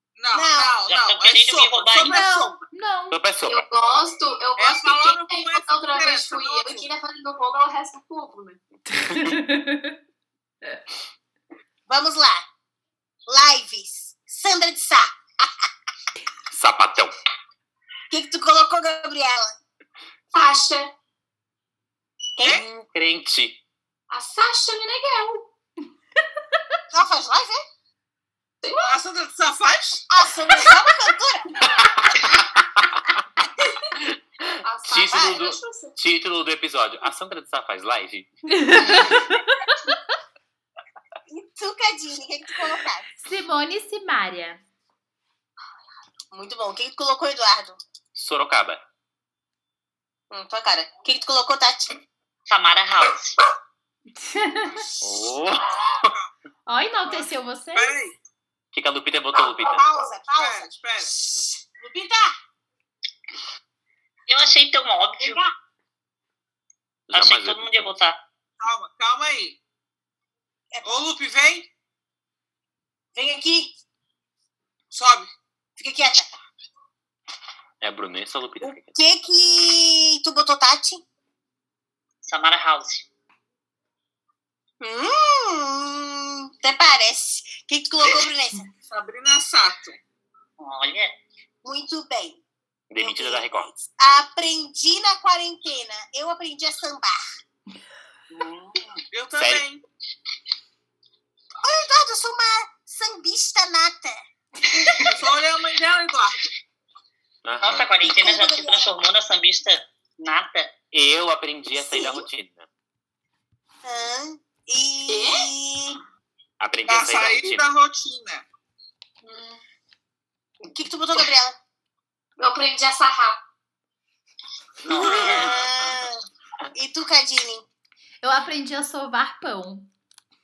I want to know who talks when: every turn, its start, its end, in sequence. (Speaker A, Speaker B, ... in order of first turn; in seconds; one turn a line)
Speaker A: 0.2-2.1
Speaker B: 0.3-0.8
Speaker C: 0.9-2.2
Speaker B: 1.9-2.6
Speaker D: 2.1-3.2
Speaker E: 3.1-3.6
Speaker F: 3.5-8.6
Speaker A: 4.6-6.9
Speaker D: 8.9-10.0
Speaker B: 11.9-12.4
Speaker B: 13.3-15.5
Speaker E: 16.5-17.1
Speaker B: 18.1-19.6
Speaker F: 20.3-20.9
Speaker B: 22.4-22.6
Speaker E: 22.4-23.6
Speaker F: 24.1-25.5
Speaker B: 26.9-27.6
Speaker F: 28.6-29.0
Speaker A: 28.9-30.1
Speaker B: 30.1-31.6
Speaker E: 31.7-33.2
Speaker E: 34.0-38.3
Speaker F: 34.6-36.0
Speaker B: 35.1-35.4
Speaker D: 38.5-39.9
Speaker B: 41.3-43.1
Speaker D: 43.2-44.6
Speaker B: 46.3-47.8
Speaker E: 48.1-48.8
Speaker B: 50.3-52.0
Speaker C: 52.5-53.4
Speaker D: 54.2-54.8
Speaker E: 55.0-56.1
Speaker D: 56.7-58.0
Speaker A: 57.1-58.1
Speaker E: 58.7-59.8
Speaker B: 59.4-62.4
Speaker A: 60.3-61.1
Speaker C: 64.3-65.4
Speaker B: 65.2-65.5
Speaker E: 67.1-68.0
Speaker C: 67.1-68.2
Speaker A: 68.6-69.6
Speaker B: 70.7-71.0
Speaker A: 70.8-71.7
Speaker B: 73.2-73.7
Speaker A: 74.9-75.3
Speaker B: 75.8-76.3
Speaker E: 77.8-79.0
Speaker B: 78.6-81.0
Speaker C: 82.2-83.1
Speaker B: 84.8-88.7
Speaker A: 88.8-90.0
Speaker C: 90.6-91.2
Speaker B: 91.6-92.4
Speaker E: 92.9-93.7
Speaker B: 93.0-97.2
Speaker C: 98.3-98.8
Speaker A: 99.1-99.8
Speaker E: 99.4-99.7
Speaker B: 101.6-104.2
Speaker A: 105.0-106.5
Speaker E: 107.4-107.9
Speaker C: 107.6-110.7
Speaker B: 108.0-108.9
Speaker E: 110.9-112.7
Speaker B: 111.8-112.3
Speaker B: 113.8-116.0
Speaker F: 115.1-115.5
Speaker E: 116.6-117.7
Speaker A: 116.9-118.5
Speaker F: 119.2-119.6
Speaker B: 120.7-121.6
Speaker F: 122.4-123.4
Speaker E: 124.9-125.8
Speaker B: 124.9-126.2
Speaker B: 126.7-127.7
Speaker D: 128.2-129.9